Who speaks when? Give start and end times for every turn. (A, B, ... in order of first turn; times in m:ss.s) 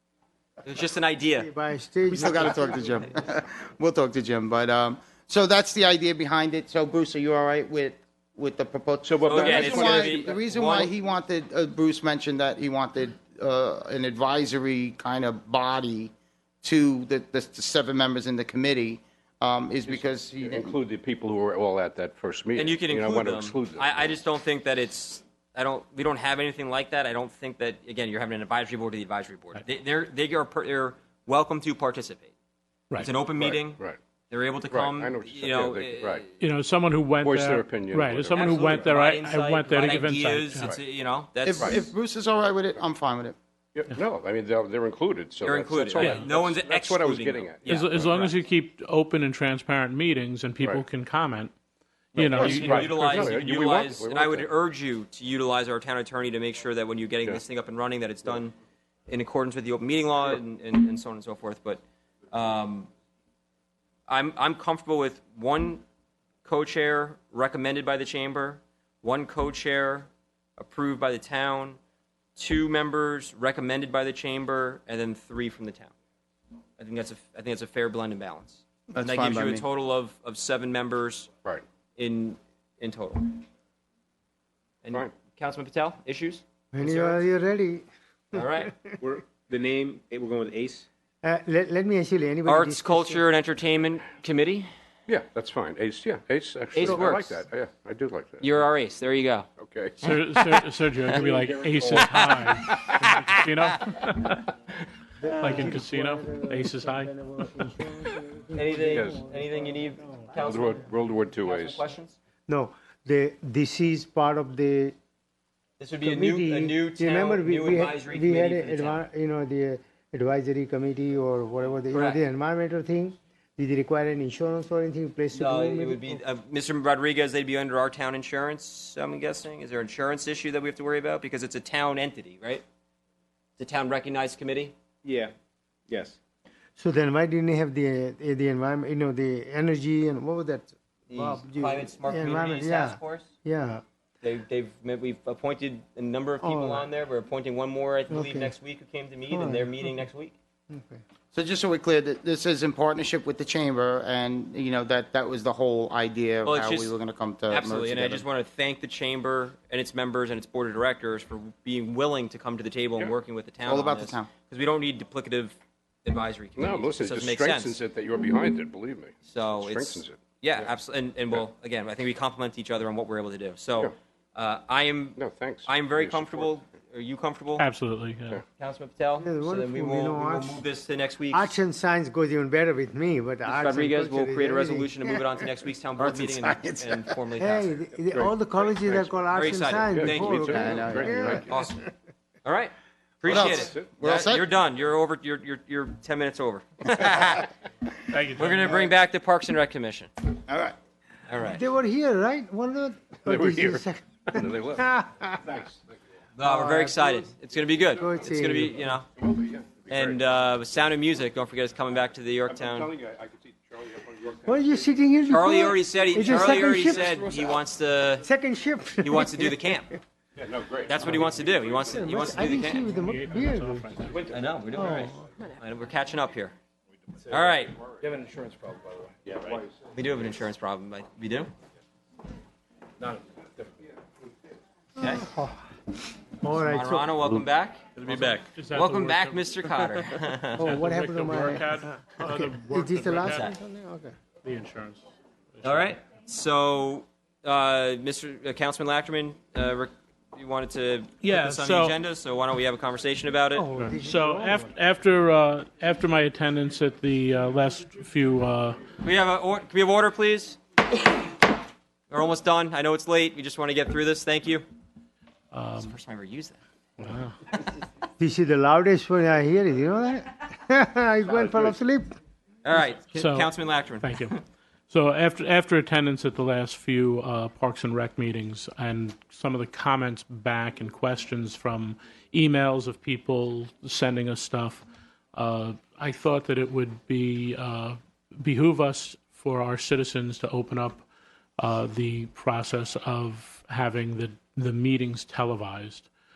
0:00.6-0:01.5 A
0:01.4-0:03.1 B
0:02.1-0:16.1 C
0:09.0-0:10.4 D
0:09.3-0:10.9 A
0:16.6-0:20.7 C
0:19.9-0:24.1 D
0:22.6-0:32.3 A
0:33.0-0:36.3 A
0:33.4-0:34.0 D
0:34.7-0:36.2 D
0:36.4-0:40.8 E
0:37.2-0:38.9 D
0:38.3-0:41.8 A
0:41.4-0:43.4 C
0:41.6-0:41.9 D
0:43.8-0:48.3 D
0:45.4-0:48.0 A
0:46.0-0:46.3 E
0:47.7-0:51.5 E
0:52.1-0:53.5 E
0:52.2-0:54.5 D
0:52.2-0:58.6 A
0:59.1-1:02.9 A
1:04.1-1:05.8 A
1:06.4-1:11.8 A
1:12.4-1:15.9 A
1:16.8-1:21.3 A
1:18.9-1:19.6 C
1:22.0-1:23.4 A
1:24.8-1:27.2 A
1:26.7-1:27.9 B
1:28.3-1:28.7 A
1:29.0-1:30.9 F
1:31.2-1:33.2 B
1:32.5-1:34.7 A
1:35.1-1:38.7 D
1:36.7-1:37.4 A
1:38.4-1:39.5 A
1:39.6-1:40.1 D
1:40.0-1:44.5 E
1:42.0-1:43.4 A
1:45.2-1:50.8 B
1:45.3-1:47.1 E
1:48.5-1:52.2 A
1:48.9-1:49.2 D
1:50.4-1:51.8 D
1:52.5-1:55.0 B
1:55.8-1:59.0 A
1:56.0-2:06.2 B
2:01.9-2:02.2 A
2:05.3-2:12.6 A
2:13.6-2:14.8 A
2:15.0-2:15.3 F
2:15.9-2:16.2 F
2:16.8-2:23.8 B
2:21.1-2:23.3 A
2:24.2-2:30.4 A
2:26.4-2:26.9 B
2:28.1-2:28.5 B
2:29.3-2:29.9 B
2:30.7-2:31.0 B
2:31.3-2:38.2 C
2:36.4-2:37.0 A
2:37.5-2:47.8 A
2:43.6-2:44.3 C
2:46.6-2:50.7 D
2:49.2-2:57.7 A
2:55.2-2:56.5 D
2:57.6-2:58.4 E
2:58.6-3:01.6 A
2:59.2-3:00.6 B
3:01.3-3:05.2 B
3:03.5-3:07.7 A
3:06.0-3:07.1 C
3:07.4-3:11.6 B
3:08.1-3:11.6 D
3:09.3-3:10.5 A
3:10.5-3:11.1 C
3:11.5-3:11.8 A
3:12.4-3:17.5 A
3:13.3-3:14.4 C
3:13.3-3:13.9 D
3:18.1-3:18.8 E
3:18.4-3:20.1 A
3:20.5-3:20.8 C
3:21.3-3:21.6 A
3:21.5-3:25.6 B
3:23.3-3:24.9 D
3:25.5-3:25.8 D
3:26.4-3:29.1 A
3:26.4-3:27.3 B
3:28.0-3:28.9 B
3:29.2-3:30.3 D
3:29.9-3:32.9 A
3:32.5-3:34.9 D
3:34.4-3:37.2 B
3:35.3-3:38.3 A
3:35.9-3:37.6 D
3:38.2-3:39.6 B
3:39.0-3:39.9 A
3:40.4-3:42.4 D
3:40.8-3:42.9 A
3:41.8-3:44.0 B
3:42.7-3:44.3 E
3:44.1-3:44.9 F
3:44.3-3:46.6 A
3:44.7-3:45.2 B
3:47.2-3:49.6 F
3:47.3-3:47.8 A
3:49.3-3:49.6 D
3:49.9-3:51.5 A
3:55.0-3:55.3 A
3:55.0-3:55.6 B
3:56.4-3:57.2 B
3:56.5-3:58.0 A
3:58.0-3:59.9 E
3:58.0-3:58.4 F
3:58.7-4:00.6 A
4:00.6-4:04.1 B
4:00.6-4:03.5 E
4:03.2-4:03.5 A
4:04.4-4:05.9 E
4:05.6-4:13.7 A
4:11.2-4:12.0 E
4:13.5-4:14.7 B
4:13.8-4:18.8 E
4:19.0-4:20.6 A
4:22.1-4:24.6 A
4:25.5-4:25.9 E
4:25.8-4:26.6 A
4:27.0-4:27.4 E
4:28.2-4:32.1 B
4:32.6-4:34.4 A
4:33.2-4:34.3 E
4:34.9-4:51.0 E
4:51.6-4:56.1 E